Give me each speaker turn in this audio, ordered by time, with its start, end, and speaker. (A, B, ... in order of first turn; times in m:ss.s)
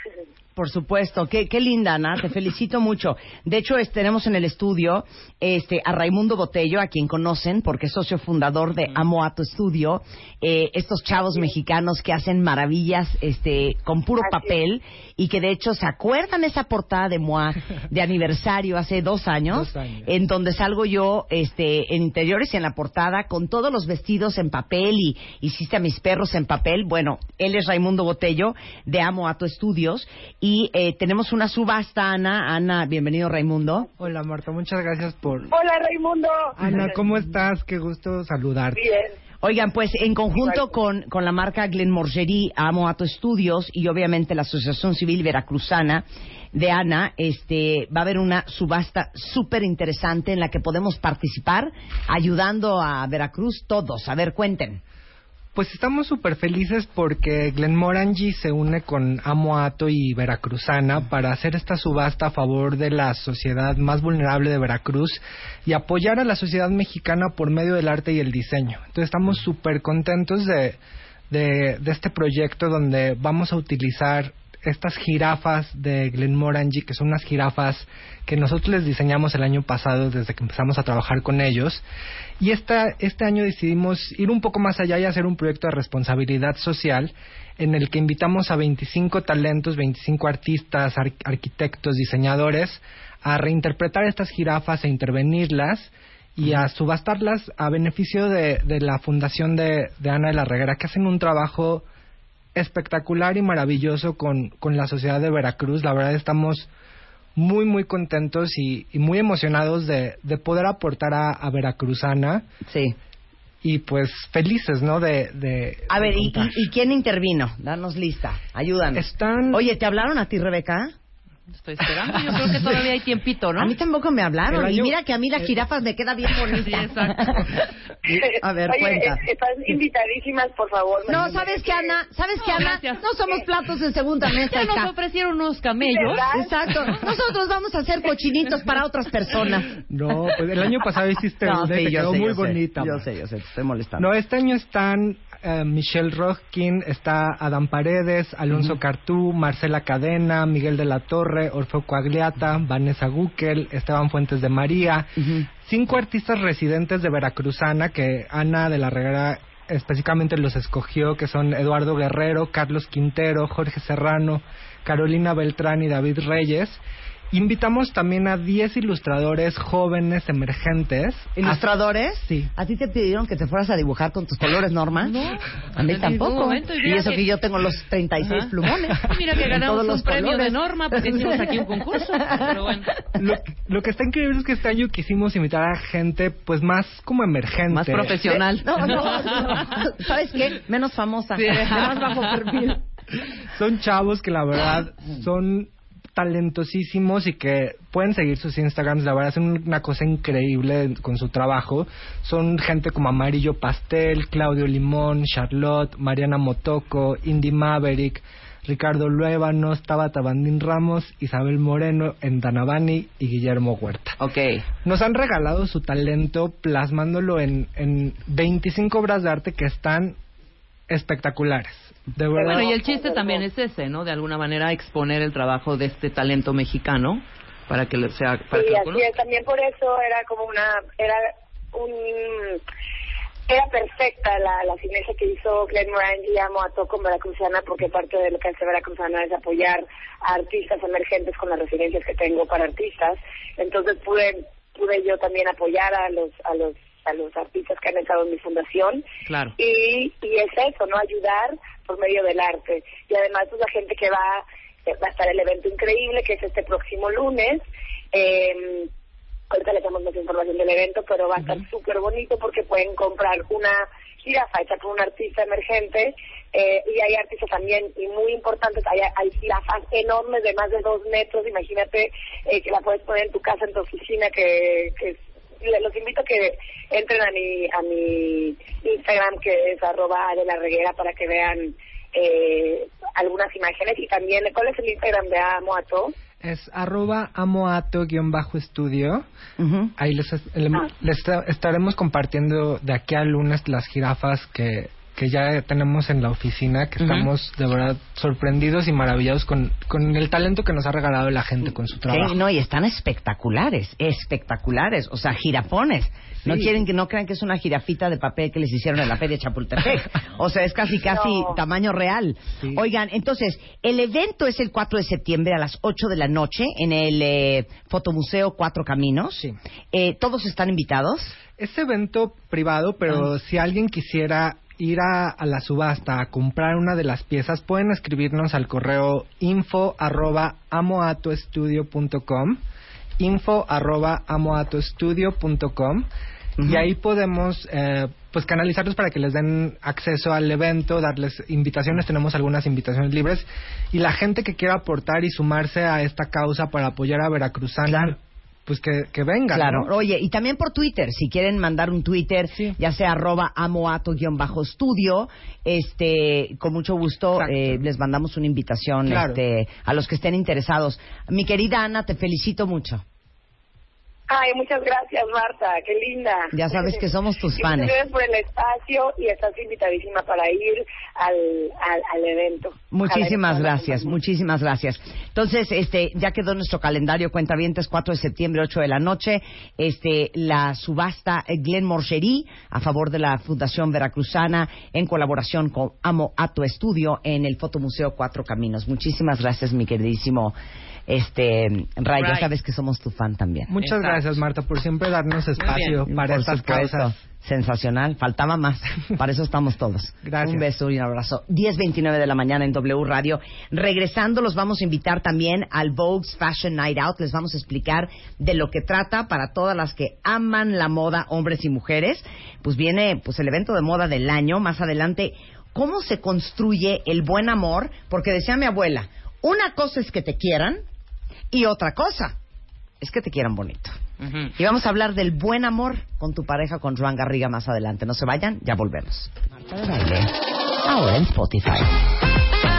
0:00.6-0:33.9 A
0:14.2-0:14.6 B
0:19.5-0:20.1 C
0:34.0-0:35.5 C
0:35.5-0:36.6 B
0:36.6-0:38.8 C
0:38.7-0:39.1 B
0:39.4-0:54.8 A
0:40.4-0:40.7 B
0:55.6-1:10.8 C
1:11.3-1:21.8 C
1:22.4-1:41.9 C
1:42.6-1:46.7 C
1:47.4-1:52.4 C
1:52.7-1:53.0 A
1:53.6-1:56.5 C
1:55.9-2:00.9 A
1:59.0-1:59.6 C
2:01.5-2:03.8 D
2:03.6-2:09.8 A
2:04.5-2:04.9 C
2:06.6-2:07.5 D
2:08.2-2:12.0 B
2:11.1-2:14.9 A
2:12.4-2:13.0 D
2:14.3-2:16.3 D
2:15.8-2:16.5 B
2:16.3-2:19.7 A
2:19.9-2:23.1 C
2:21.4-2:24.1 A
2:24.0-2:51.6 C
2:28.5-2:28.8 A
2:35.2-2:35.5 A
2:51.4-3:01.7 A
2:52.2-2:52.5 C
2:55.0-2:57.3 D
2:59.0-3:03.0 D
3:03.2-3:08.2 C
3:07.7-3:09.8 D
3:08.2-3:12.8 A
3:11.4-3:12.7 D
3:13.5-3:34.2 C
3:34.2-3:34.6 D
3:34.8-3:40.2 C
3:40.9-3:42.7 C
3:42.3-3:43.4 B
3:42.5-3:49.1 D
3:48.5-3:52.6 B
3:53.5-4:09.0 B
4:09.3-4:09.5 D
4:09.6-4:18.9 B
4:19.5-4:46.1 B
4:46.4-4:49.2 C
4:49.6-4:49.9 A
4:50.0-5:02.4 C
4:57.0-4:57.3 D
5:02.1-5:21.4 A
5:06.4-5:06.8 C
5:11.1-5:11.6 B
5:21.5-5:32.6 C
5:33.2-5:36.1 C
5:36.6-5:36.9 A
5:36.6-5:49.9 C
5:47.9-5:48.2 A
5:49.5-6:03.0 A
5:57.4-5:57.8 C
5:59.1-5:59.4 C
6:04.3-6:14.2 B
6:06.5-6:08.0 A
6:12.9-6:30.6 A
6:31.1-6:33.7 A
6:32.1-6:32.5 D
6:33.7-6:37.1 C
6:33.8-6:34.4 D
6:35.6-6:36.0 D
6:36.1-7:00.8 A
6:40.2-6:40.6 C
7:01.5-7:02.3 A
7:03.0-7:04.0 A
7:04.5-7:10.3 A
7:10.9-7:11.9 A